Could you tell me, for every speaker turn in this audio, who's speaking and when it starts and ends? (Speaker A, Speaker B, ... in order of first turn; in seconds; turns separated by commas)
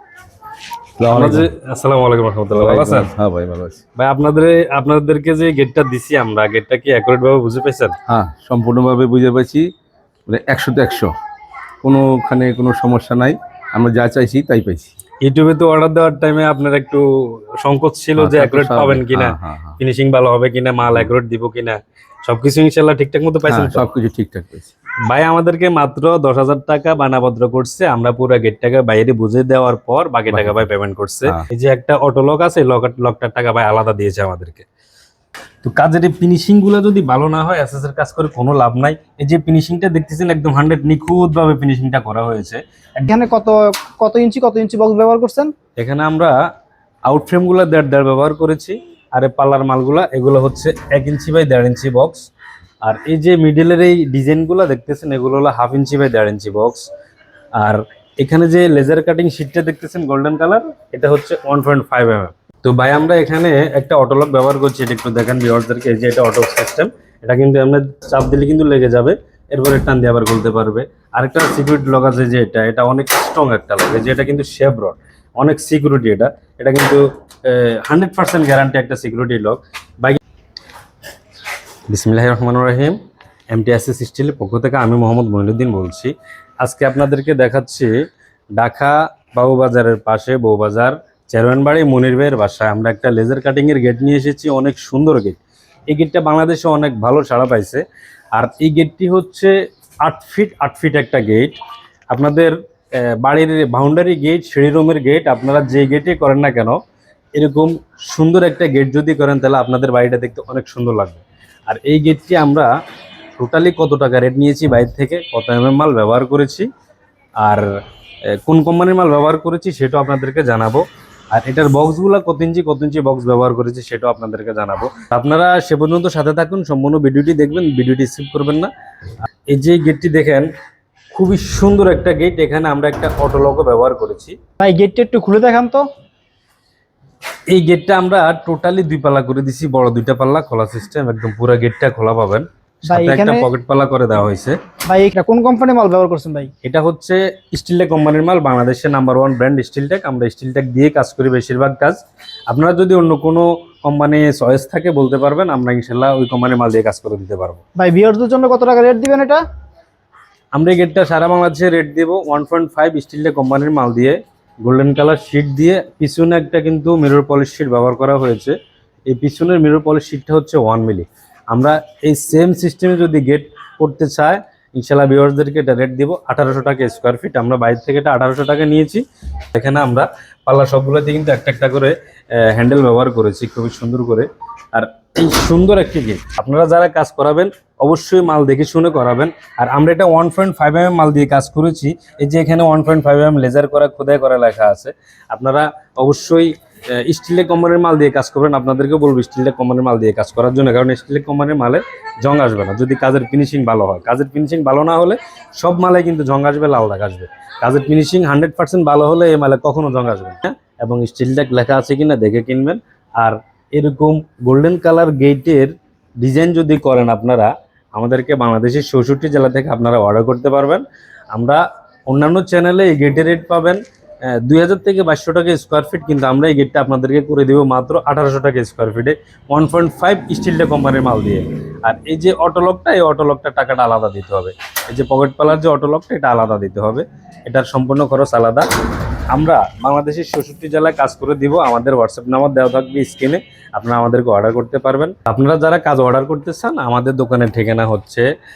Speaker A: 1.0-1.5, Speaker B: 1.1-3.1, Speaker A: 2.6-3.8, Speaker B: 4.0-8.0, Speaker A: 8.1-9.7, Speaker A: 10.3-11.1, Speaker A: 11.8-14.9, Speaker B: 15.2-23.9, Speaker A: 18.2-19.8, Speaker A: 23.4-24.7, Speaker B: 25.1-34.6, Speaker A: 30.3-30.7, Speaker B: 35.6-43.1, Speaker C: 43.1-45.5, Speaker B: 45.8-46.3, Speaker B: 47.1-52.2, Speaker B: 52.8-56.8, Speaker B: 57.6-80.2, Speaker B: 81.9-83.0, Speaker B: 83.5-87.9, Speaker B: 88.6-97.8, Speaker B: 98.3-99.5, Speaker B: 100.0-101.5, Speaker B: 102.1-106.8, Speaker B: 107.3-112.7, Speaker B: 113.4-116.7, Speaker B: 117.4-117.7, Speaker B: 118.5-120.8, Speaker B: 121.3-128.7, Speaker B: 129.5-130.5, Speaker B: 131.1-134.3, Speaker C: 134.6-135.8, Speaker B: 137.5-144.6, Speaker C: 142.9-143.5, Speaker C: 144.9-146.5, Speaker B: 146.6-157.6, Speaker C: 157.8-159.4, Speaker B: 160.5-168.5, Speaker B: 169.1-179.0, Speaker B: 179.5-223.8, Speaker B: 224.4-238.7, Speaker B: 239.3-248.3